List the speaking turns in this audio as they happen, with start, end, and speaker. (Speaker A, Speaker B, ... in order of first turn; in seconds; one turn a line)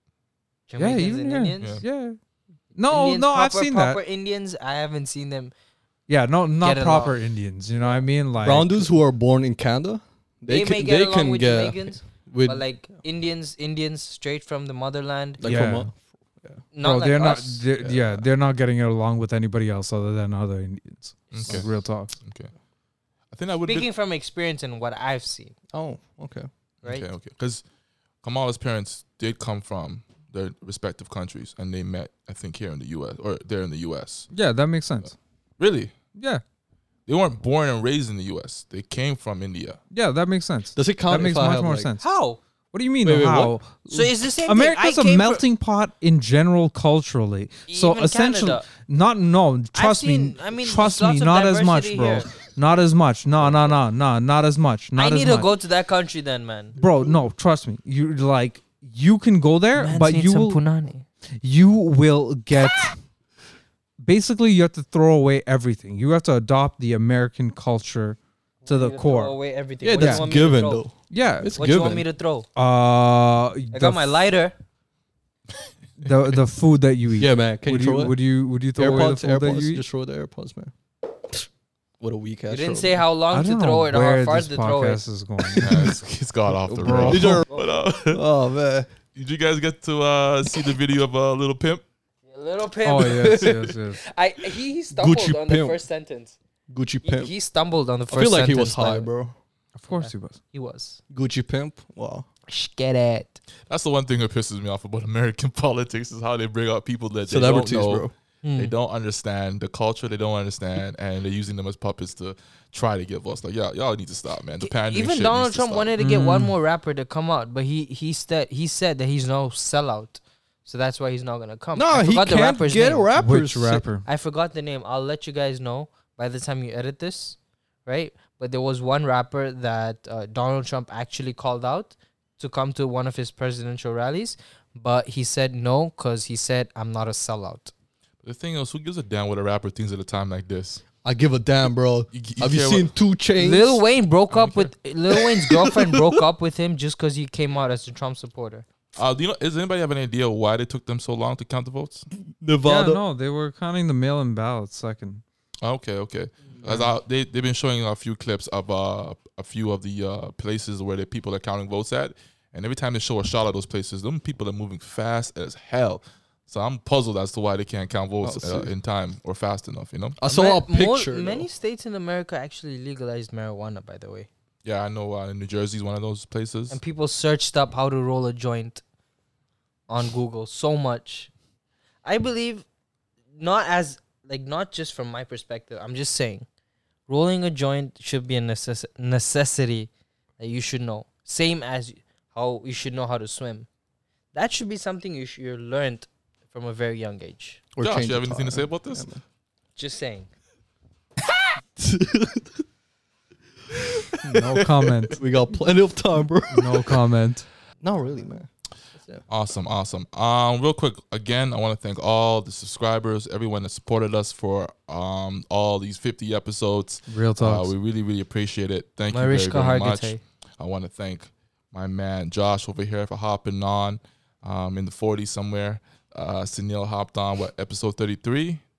Speaker A: 0.7-1.8
Speaker B: 0.8-2.2
Speaker B: 2.7-4.0
Speaker A: 2.9-5.5
Speaker B: 6.1-9.0
Speaker A: 6.6-7.2
Speaker C: 8.4-12.6
Speaker A: 10.5-15.4
Speaker C: 15.4-16.6
Speaker B: 15.4-15.9
Speaker A: 16.7-17.7
Speaker B: 16.8-22.1
Speaker D: 17.8-18.2
Speaker D: 21.3-22.5
Speaker D: 23.3-23.9
Speaker A: 23.6-25.5
Speaker C: 25.7-26.5
Speaker D: 26.8-27.6
Speaker D: 28.2-34.3
Speaker B: 34.3-35.1
Speaker D: 35.6-35.9
Speaker B: 36.1-36.4
Speaker D: 37.1-39.8
Speaker B: 39.9-42.0
Speaker C: 40.8-41.9
Speaker A: 42.0-42.4
Speaker B: 42.7-55.5
Speaker C: 43.0-43.6
Speaker A: 43.9-45.4
Speaker A: 47.7-48.6
Speaker A: 49.7-52.3
Speaker A: 55.0-56.8
Speaker B: 56.8-60.6
Speaker A: 59.8-61.0
Speaker B: 61.4-63.0
Speaker B: 64.0-69.4
Speaker A: 68.6-70.9
Speaker C: 69.8-72.0
Speaker B: 70.0-70.3
Speaker B: 71.1-71.9
Speaker A: 71.5-72.5
Speaker B: 72.5-74.2
Speaker A: 73.7-74.5
Speaker B: 76.0-79.8
Speaker C: 77.2-78.2
Speaker C: 78.7-80.7
Speaker C: 82.0-83.0
Speaker A: 82.5-85.0
Speaker B: 83.3-86.0
Speaker D: 85.5-88.2
Speaker B: 86.7-87.4
Speaker C: 87.0-87.5
Speaker C: 88.1-88.9
Speaker D: 89.1-91.8
Speaker A: 92.3-96.4
Speaker B: 92.8-94.0
Speaker C: 94.9-95.8
Speaker C: 96.7-97.3
Speaker A: 97.0-99.1
Speaker C: 98.1-99.3
Speaker B: 99.8-100.4
Speaker A: 99.9-101.0
Speaker C: 101.1-102.3
Speaker A: 102.5-103.4
Speaker D: 103.7-115.9
Speaker C: 107.3-108.1
Speaker A: 108.4-108.7
Speaker A: 114.6-123.1
Speaker B: 116.0-116.5
Speaker C: 121.8-123.8
Speaker B: 123.1-124.0
Speaker A: 124.0-137.7
Speaker D: 138.2-140.8
Speaker C: 141.0-143.8
Speaker D: 142.1-142.9
Speaker A: 143.4-148.7
Speaker D: 144.3-144.7
Speaker C: 145.2-146.1
Speaker D: 148.9-152.1
Speaker C: 152.4-153.0
Speaker B: 152.6-155.2
Speaker D: 155.6-170.2
Speaker B: 156.6-156.9
Speaker C: 168.2-168.7
Speaker C: 170.2-171.5
Speaker A: 170.2-174.3
Speaker D: 174.6-176.8
Speaker A: 176.7-178.8
Speaker A: 179.9-181.3
Speaker A: 182.0-182.7
Speaker A: 183.3-186.5
Speaker A: 187.1-193.7
Speaker A: 194.3-197.6
Speaker C: 197.7-199.2
Speaker D: 197.8-199.1
Speaker A: 199.8-200.3
Speaker C: 201.8-202.6
Speaker C: 203.7-204.1
Speaker B: 204.2-205.2
Speaker D: 204.3-205.1
Speaker C: 205.2-207.1
Speaker B: 206.5-207.5
Speaker C: 207.8-209.2
Speaker D: 209.3-228.6
Speaker B: 217.1-217.7
Speaker A: 219.1-220.2